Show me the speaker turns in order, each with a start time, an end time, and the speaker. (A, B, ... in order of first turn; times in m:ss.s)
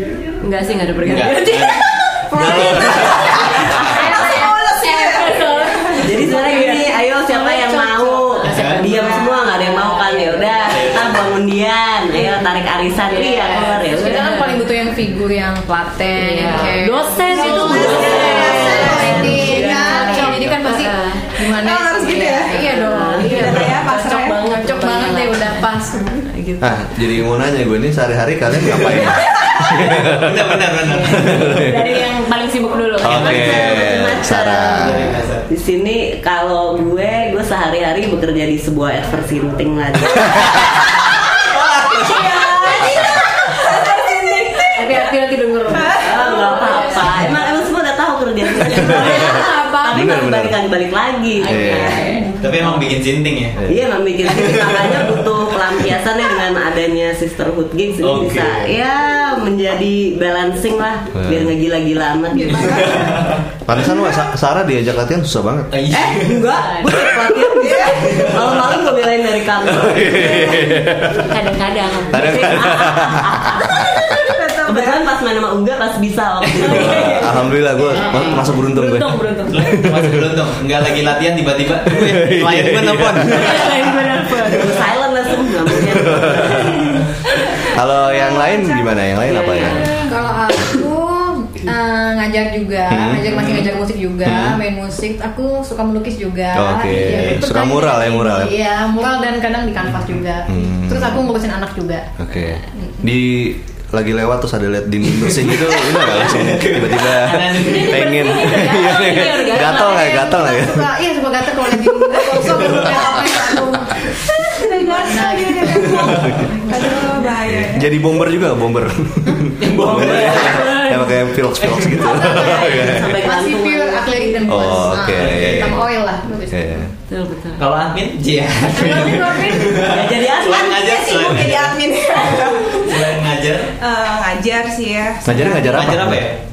0:00.4-0:06.9 A
0:01.0-0:04.0 B
0:02.1-0:05.9 C
0:04.0-0:04.6 D
0:06.0-0:14.3 E
0:06.3-0:08.4 D
0:08.4-0:08.9 B
0:08.4-0:11.0 A
0:10.7-0:11.3 B
0:12.1-0:14.8 A
0:13.9-0:23.8 D
0:16.2-0:21.4 A
0:17.3-0:19.1 C
0:17.4-0:19.8 E
0:18.5-0:19.4 F
0:20.1-0:20.6 B
0:21.5-0:22.7 C
0:22.5-0:26.8 A
0:22.9-0:23.4 E
0:23.2-0:24.4 C
0:24.4-0:26.2 D
0:26.6-0:31.9 F
0:29.4-0:29.6 C
0:29.6-0:31.7 B
0:30.9-0:33.9 A
0:33.0-0:35.3 F
0:33.0-0:33.7 B
0:33.2-0:40.8 E
0:34.7-0:35.5 B
0:41.8-0:42.3 B
0:42.0-0:47.5 A
0:42.1-0:45.1 C
0:45.7-0:46.1 C
0:46.0-0:52.0 E
0:48.7-0:50.2 D
0:48.9-0:49.3 F
0:48.9-0:49.5 A
0:49.9-0:50.6 F
0:51.4-0:52.4 A
0:51.5-0:52.0 F
0:52.4-0:53.6 B
0:53.6-0:53.9 F
0:53.7-1:03.0 E
0:54.3-0:55.3 B
0:58.0-0:58.8 B
1:01.2-1:01.5 F
1:02.3-1:03.4 C
1:02.9-1:03.4 B
1:03.7-1:05.8 F
1:05.7-1:06.5 B
1:05.9-1:10.6 E
1:06.6-1:07.0 A
1:07.5-1:08.3 C
1:07.9-1:08.8 B
1:09.8-1:11.3 F
1:10.2-1:14.0 A
1:12.1-1:14.3 F
1:14.2-1:15.1 C
1:14.7-1:17.4 E
1:16.4-1:16.8 B
1:16.6-1:19.7 A
1:16.6-1:20.5 F
1:19.5-1:23.9 B
1:21.9-1:23.9 F
1:23.3-1:24.8 A
1:24.5-1:27.1 E
1:25.8-1:27.0 F
1:27.3-1:30.0 A
1:27.6-1:29.8 F
1:28.1-1:28.5 D
1:29.3-1:42.0 D
1:32.9-1:33.5 F
1:33.4-1:33.7 B
1:34.2-1:34.6 F
1:36.5-1:38.6 F
1:37.0-1:37.4 B
1:39.8-1:40.2 B
1:40.5-1:41.3 F
1:42.2-1:50.9 F
1:45.1-1:48.7 B
1:47.6-1:50.5 A
1:49.6-1:54.1 D
1:52.5-1:53.1 B
1:54.5-1:57.9 C
1:54.6-1:57.1 D
1:55.9-1:56.3 B
1:57.5-2:03.2 F
1:59.6-2:00.8 B
1:59.8-2:00.6 E
2:00.3-2:01.3 A
2:01.6-2:02.1 B
2:02.0-2:06.9 D
2:02.3-2:04.2 E
2:04.0-2:05.0 A
2:04.4-2:05.8 F
2:05.1-2:05.8 B
2:06.5-2:06.9 F
2:07.1-2:07.7 A
2:07.6-2:13.7 B
2:08.7-2:09.9 D
2:08.8-2:09.4 A
2:09.8-2:10.8 E
2:10.6-2:13.2 C
2:13.8-2:15.8 C
2:15.2-2:16.3 F
2:15.5-2:16.4 B